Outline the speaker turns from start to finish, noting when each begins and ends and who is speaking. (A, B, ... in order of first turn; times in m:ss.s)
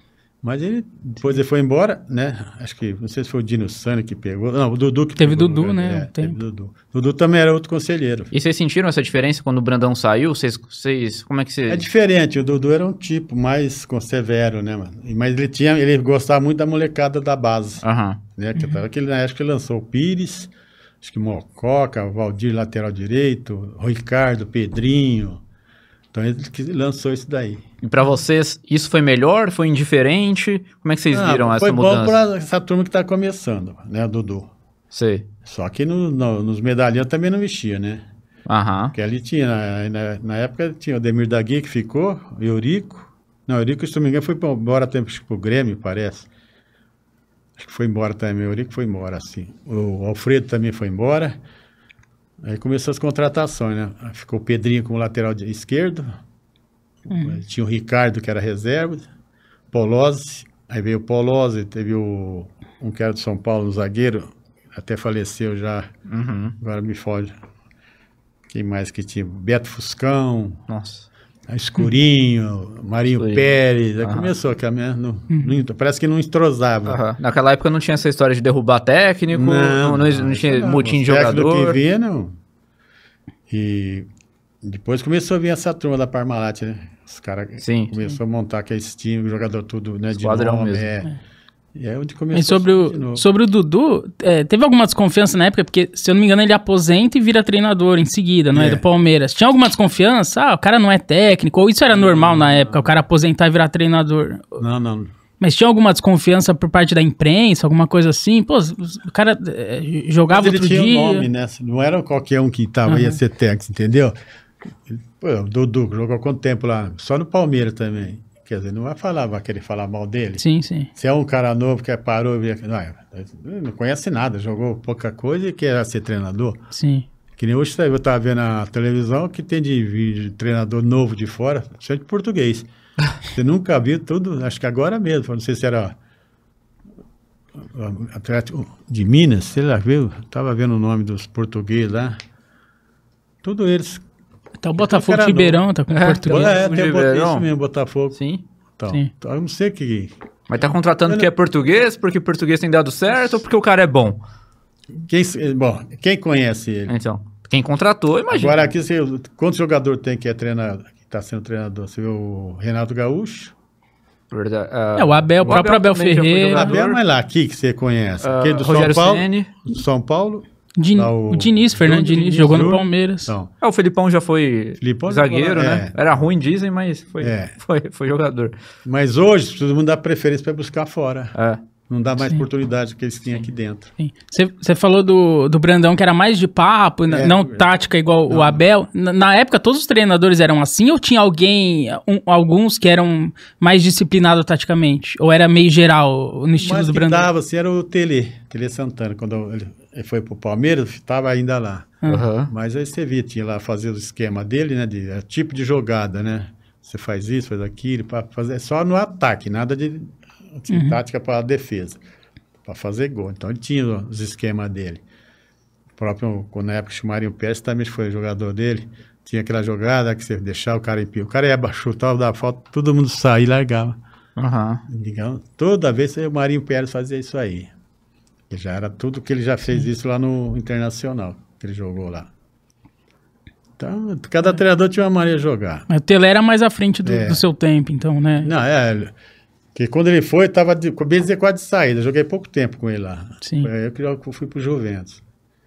0:00.4-0:08.3 A
0:05.2-0:06.4 B
0:08.3-0:11.8 C
0:11.7-0:17.8 A
0:17.8-0:18.2 C
0:18.4-0:25.4 A
0:26.1-0:27.6 A
0:27.8-0:32.2 C
0:31.1-0:34.5 A
0:34.9-0:35.3 C
0:35.5-0:38.0 A
0:38.5-0:39.0 C
0:39.0-0:46.3 A
0:47.6-0:51.4 A
0:52.4-0:56.1 A
0:57.1-0:59.1 A
0:57.1-0:57.4 B
0:59.7-1:05.9 A
1:06.1-1:06.6 C
1:06.6-1:07.3 A
1:08.5-1:10.6 A
1:10.7-1:11.1 C
1:11.5-1:17.0 A
1:13.2-1:13.4 C
1:14.0-1:14.3 C
1:16.9-1:21.8 C
1:19.3-1:22.4 A
1:23.5-1:24.1 A
1:24.6-1:31.1 A
1:27.6-1:28.0 C
1:30.1-1:30.9 C
1:31.7-1:33.2 A
1:32.3-1:44.6 B
1:38.5-1:38.8 A
1:41.9-1:42.9 A
1:44.6-1:45.1 A
1:45.4-1:51.3 B
1:50.3-1:54.2 A
1:52.9-1:53.2 B
1:54.9-2:00.4 A
2:00.4-2:00.9 B
2:01.0-2:06.6 A
2:06.7-2:07.1 B
2:07.4-2:12.7 A
2:13.2-2:16.0 A
2:17.6-2:22.2 A
2:23.4-2:24.0 A
2:24.6-2:26.6 B
2:24.8-2:25.6 A
2:25.9-2:27.5 C
2:26.3-2:28.2 A
2:28.1-2:28.4 C
2:28.8-2:31.3 A
2:30.5-2:34.2 C
2:34.9-2:37.0 A
2:36.9-2:38.6 C
2:38.3-2:43.5 A
2:44.3-2:47.0 C
2:45.0-2:46.8 B
2:46.5-2:53.5 A
2:48.2-2:49.5 C
2:50.8-2:53.3 B
2:53.6-2:58.5 C
2:54.8-2:56.0 A
2:57.2-2:57.5 A
2:58.8-3:01.3 A
3:01.4-3:01.6 C
3:01.9-3:03.9 A
3:04.0-3:17.3 B
3:07.1-3:07.7 A
3:08.3-3:08.6 A
3:16.6-3:22.0 A
3:22.1-3:22.5 C
3:22.5-3:32.0 A
3:30.7-3:31.0 B
3:32.6-3:35.0 A
3:36.0-3:44.0 A
3:44.4-3:44.8 C
3:44.9-3:47.7 A
3:48.5-3:52.3 A
3:53.8-3:55.9 A
3:55.9-3:58.5 B
3:57.0-3:57.4 A
3:58.4-3:59.1 A
3:59.8-4:05.2 A
4:03.4-4:03.7 B